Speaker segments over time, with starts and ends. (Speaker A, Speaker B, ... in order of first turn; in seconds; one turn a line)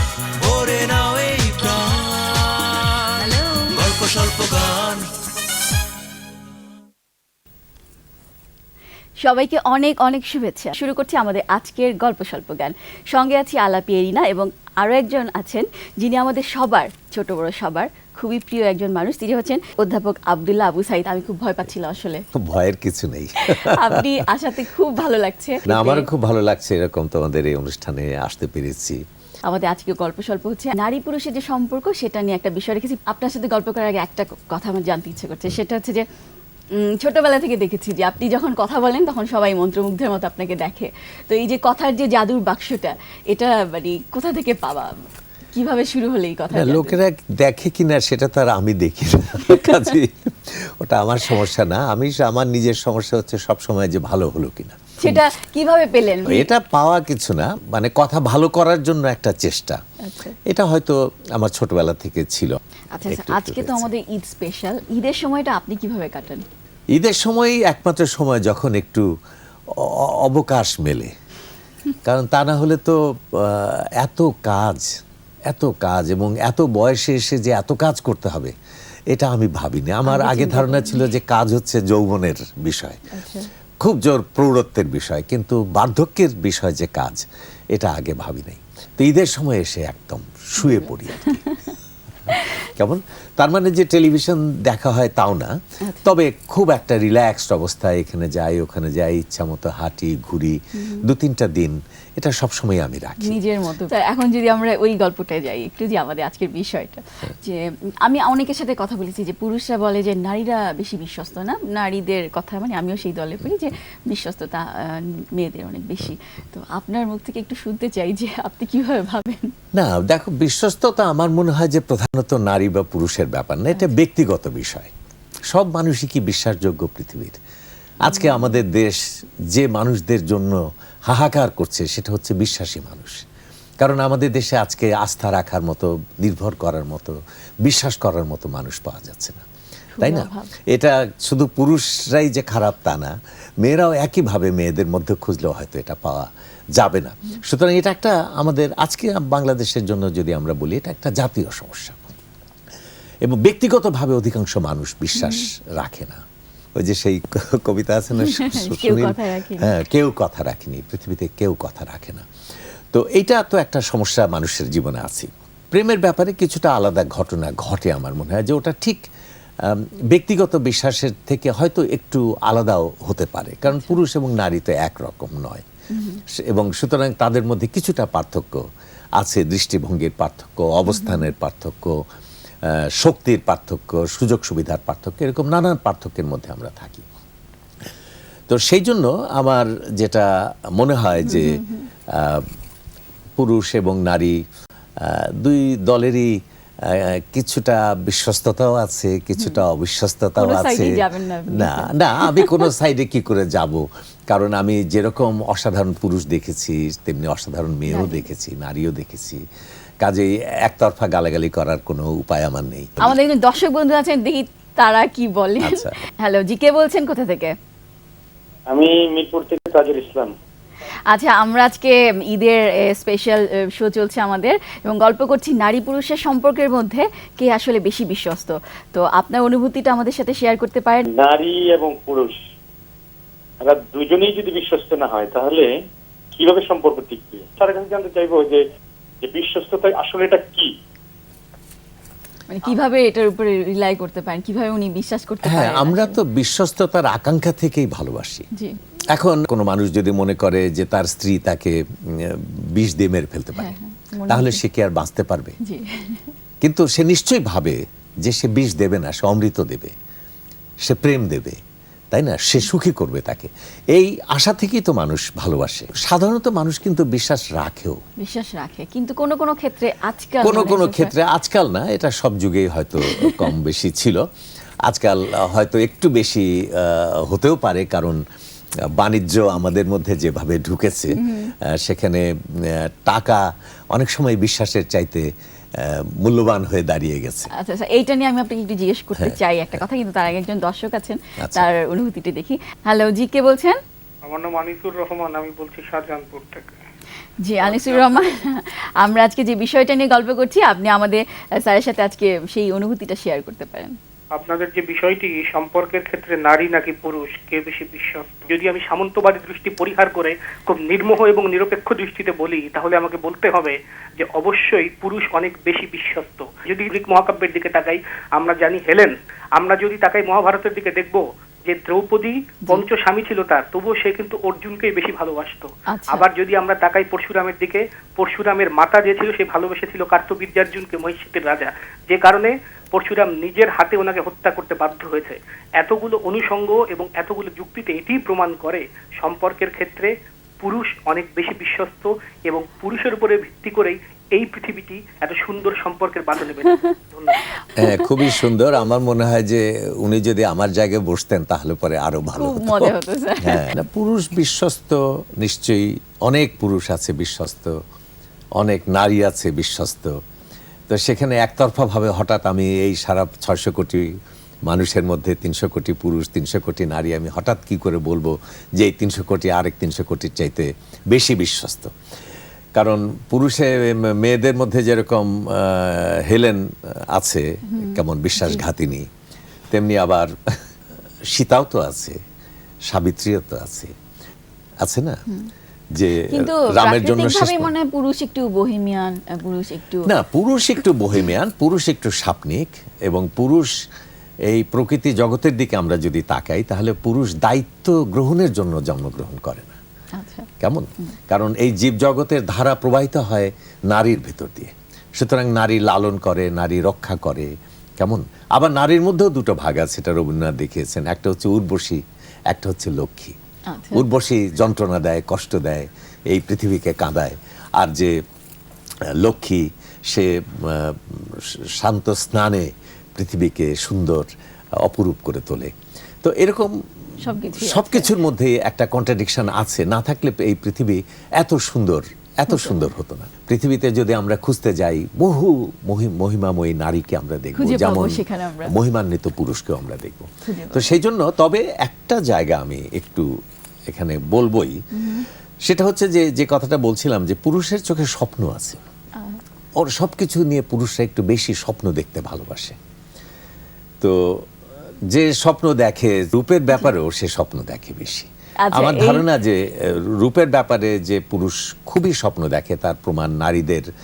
Speaker A: 0.4-5.1
Speaker B: 3.2-3.7
Speaker B: 9.2-22.3
Speaker C: 22.3-24.1
Speaker B: 23.4-26.1
Speaker C: 25.7-29.0
Speaker B: 29.5-36.1
Speaker B: 36.8-44.9
Speaker B: 45.5-47.0
Speaker C: 46.5-55.2
Speaker B: 49.5-49.8
Speaker B: 55.0-56.5
Speaker C: 56.3-59.8
Speaker B: 60.0-60.4
Speaker C: 60.5-63.9
Speaker B: 62.9-66.5
Speaker C: 66.9-69.1
Speaker C: 69.7-71.1
Speaker C: 72.0-78.5
Speaker C: 79.1-83.0
Speaker B: 80.1-81.1
Speaker B: 83.1-83.5
Speaker C: 83.8-91.4
Speaker B: 90.6-91.7
Speaker C: 92.7-103.4
Speaker B: 95.8-96.1
Speaker B: 100.8-101.0
Speaker B: 103.2-119.5
Speaker C: 119.7-124.9
Speaker C: 125.5-127.4
Speaker C: 128.0-129.0
Speaker B: 128.1-128.5
Speaker C: 129.5-133.2
Speaker C: 133.8-139.4
Speaker B: 140.0-140.5
Speaker C: 140.0-152.1
Speaker C: 153.2-156.2
Speaker B: 155.2-155.5
Speaker C: 156.8-162.3
Speaker B: 158.2-159.7
Speaker C: 162.9-169.0
Speaker C: 169.6-175.7
Speaker B: 173.7-174.0
Speaker B: 175.9-176.2
Speaker C: 176.3-178.6
Speaker C: 179.2-182.0
Speaker B: 180.9-181.2
Speaker C: 182.7-187.1
Speaker C: 188.5-192.5
Speaker B: 191.3-191.9
Speaker C: 193.4-194.4
Speaker C: 195.0-209.4
Speaker B: 200.4-202.7
Speaker B: 207.9-208.2
Speaker C: 210.0-213.2
Speaker B: 213.0-217.5
Speaker C: 215.6-216.0
Speaker D: 218.7-220.3
Speaker B: 221.1-231.1
Speaker D: 231.1-232.4
Speaker D: 233.6-235.7
Speaker D: 236.4-238.6
Speaker D: 239.2-240.7
Speaker B: 242.5-246.2
Speaker C: 245.5-248.5
Speaker C: 249.1-253.8
Speaker B: 253.6-254.6
Speaker C: 254.3-255.6
Speaker B: 255.6-256.3
Speaker C: 256.6-259.9
Speaker C: 260.8-261.6
Speaker C: 262.1-268.0
Speaker B: 268.2-271.1
Speaker C: 270.4-274.2
Speaker B: 273.0-273.4
Speaker C: 274.9-278.2
Speaker C: 278.9-287.5
Speaker B: 281.2-281.5
Speaker B: 287.5-293.8
Speaker C: 289.2-289.8
Speaker C: 291.4-291.7
Speaker E: 294.2-296.8
Speaker B: 297.4-304.0
Speaker E: 297.6-298.3
Speaker E: 304.3-340.1
Speaker B: 325.9-326.3
Speaker E: 340.6-347.4
Speaker B: 347.6-348.4
Speaker C: 347.8-357.8
Speaker B: 352.4-353.7
Speaker C: 358.6-360.1
Speaker C: 360.9-364.1
Speaker C: 364.7-371.9
Speaker C: 372.8-379.1
Speaker B: 377.7-378.6
Speaker C: 379.7-380.6
Speaker C: 381.3-382.2
Speaker C: 382.9-383.9
Speaker C: 384.8-385.2
Speaker C: 385.9-387.7
Speaker B: 386.3-390.1
Speaker C: 390.1-393.7
Speaker C: 394.5-399.8
Speaker B: 400.2-400.5
Speaker C: 400.6-413.4
Speaker B: 413.7-414.1
Speaker C: 413.9-418.2
Speaker C: 419.2-424.3
Speaker C: 424.8-426.7
Speaker B: 427.2-428.1
Speaker C: 427.4-443.3
Speaker B: 432.5-432.8
Speaker B: 437.6-438.7
Speaker B: 440.5-441.0
Speaker C: 443.9-444.8
Speaker B: 444.9-445.3
Speaker C: 445.6-448.8
Speaker C: 449.8-452.8
Speaker C: 454.0-454.5
Speaker C: 455.1-463.9
Speaker B: 458.6-459.2